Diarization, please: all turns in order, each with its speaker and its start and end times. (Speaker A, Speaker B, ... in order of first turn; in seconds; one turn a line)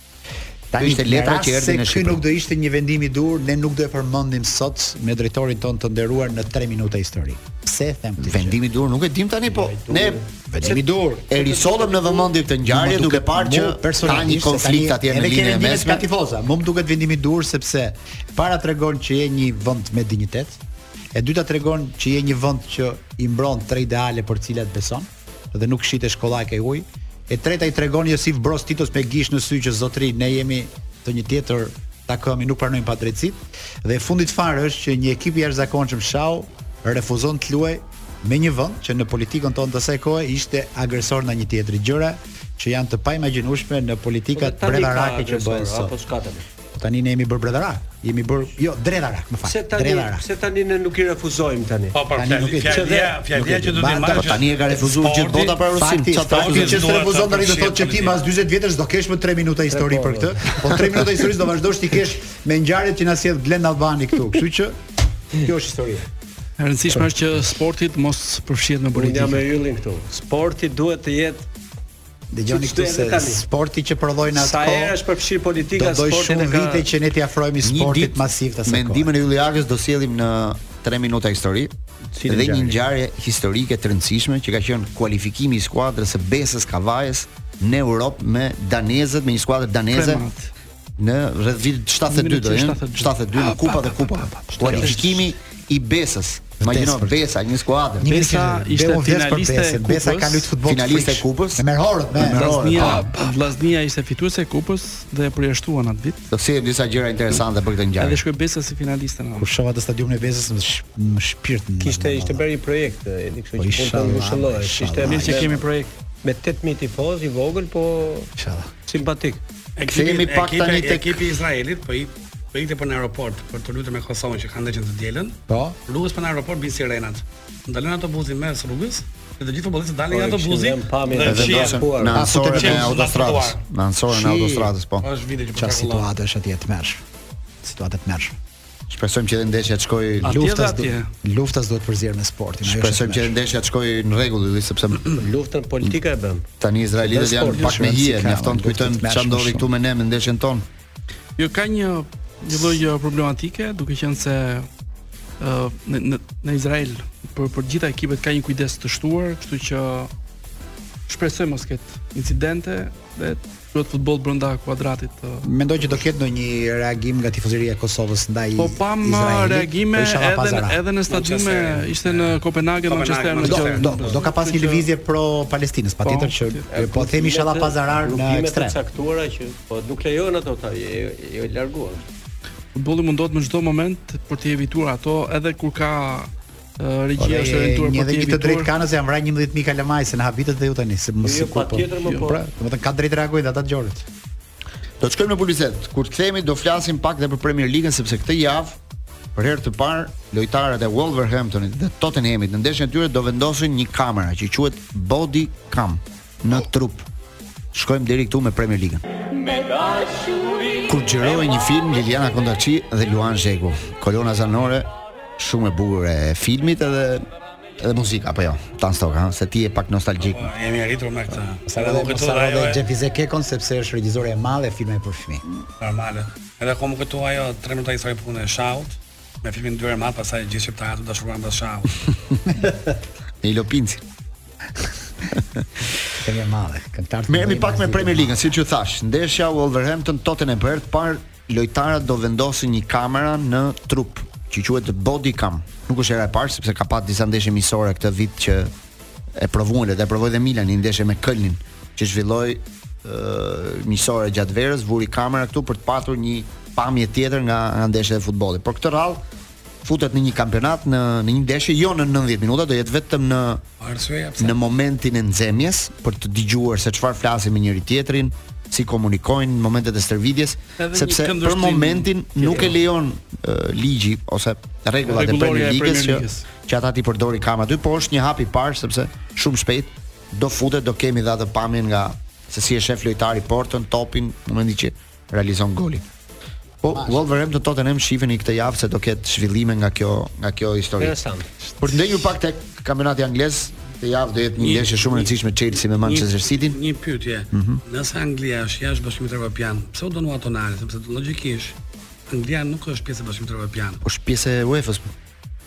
Speaker A: 0.7-8.6
Speaker B: 0.8-2.2
Speaker B: 8.2-10.2
Speaker C: 9.5-12.3
Speaker A: 10.5-11.2
Speaker B: 11.3-16.1
Speaker A: 12.7-20.6
Speaker A: 21.1-45.9
Speaker C: 44.4-46.5
Speaker A: 46.8-50.2
Speaker C: 49.4-52.0
Speaker D: 51.9-55.6
Speaker A: 52.2-54.4
Speaker C: 52.7-53.2
Speaker B: 54.1-57.0
Speaker A: 55.7-64.8
Speaker D: 56.3-58.2
Speaker C: 59.7-60.6
Speaker A: 65.4-66.1
Speaker E: 66.6-69.5
Speaker C: 68.9-71.5
Speaker A: 72.3-75.0
Speaker C: 72.5-73.4
Speaker C: 74.3-76.9
Speaker A: 75.8-79.1
Speaker B: 77.6-81.7
Speaker A: 82.2-82.7
Speaker C: 82.3-82.7
Speaker B: 82.3-90.2
Speaker E: 89.9-90.5
Speaker B: 91.0-98.1
Speaker E: 92.1-95.2
Speaker A: 94.6-95.1
Speaker A: 96.6-97.2
Speaker A: 98.0-103.1
Speaker E: 98.1-100.5
Speaker B: 100.7-103.2
Speaker E: 102.2-106.3
Speaker B: 106.3-108.2
Speaker E: 108.0-109.5
Speaker A: 109.4-112.4
Speaker C: 111.8-115.6
Speaker A: 113.6-115.7
Speaker E: 115.0-115.9
Speaker C: 116.2-118.3
Speaker A: 118.4-118.7
Speaker C: 118.9-119.4
Speaker D: 119.8-131.9
Speaker B: 119.8-121.3
Speaker A: 125.5-125.8
Speaker C: 130.1-132.3
Speaker B: 131.2-135.1
Speaker A: 132.2-133.3
Speaker D: 132.5-133.6
Speaker A: 134.1-134.7
Speaker D: 135.0-136.1
Speaker A: 135.6-137.0
Speaker A: 137.6-138.4
Speaker B: 138.9-140.4
Speaker E: 140.2-141.1
Speaker A: 140.2-143.3
Speaker B: 142.6-145.2
Speaker C: 145.1-146.5
Speaker B: 146.6-150.7
Speaker A: 147.1-149.6
Speaker C: 147.1-147.7
Speaker E: 151.4-154.7
Speaker E: 155.4-160.1
Speaker E: 161.1-165.5
Speaker A: 165.4-170.8
Speaker E: 168.6-174.9
Speaker D: 171.1-174.2
Speaker A: 173.4-178.8
Speaker E: 176.0-176.6
Speaker C: 176.7-182.1
Speaker E: 182.8-188.7
Speaker A: 187.2-194.1
Speaker C: 191.2-192.4
Speaker B: 195.0-198.8
Speaker B: 199.3-207.1
Speaker B: 207.7-209.0
Speaker B: 210.8-217.3
Speaker B: 217.8-220.5
Speaker D: 220.2-222.8
Speaker A: 221.7-225.4
Speaker D: 225.8-231.9
Speaker B: 233.4-234.0
Speaker A: 236.2-238.4
Speaker B: 237.3-248.7
Speaker B: 249.3-259.2
Speaker B: 259.8-263.6
Speaker D: 263.8-264.6
Speaker B: 264.4-286.0
Speaker E: 270.8-272.8
Speaker E: 275.1-276.5
Speaker B: 286.8-291.2
Speaker A: 286.9-287.2
Speaker C: 291.0-291.5
Speaker B: 291.8-296.8
Speaker D: 294.6-295.3
Speaker D: 296.0-301.8
Speaker B: 297.5-297.8
Speaker D: 302.3-304.0
Speaker B: 304.0-305.1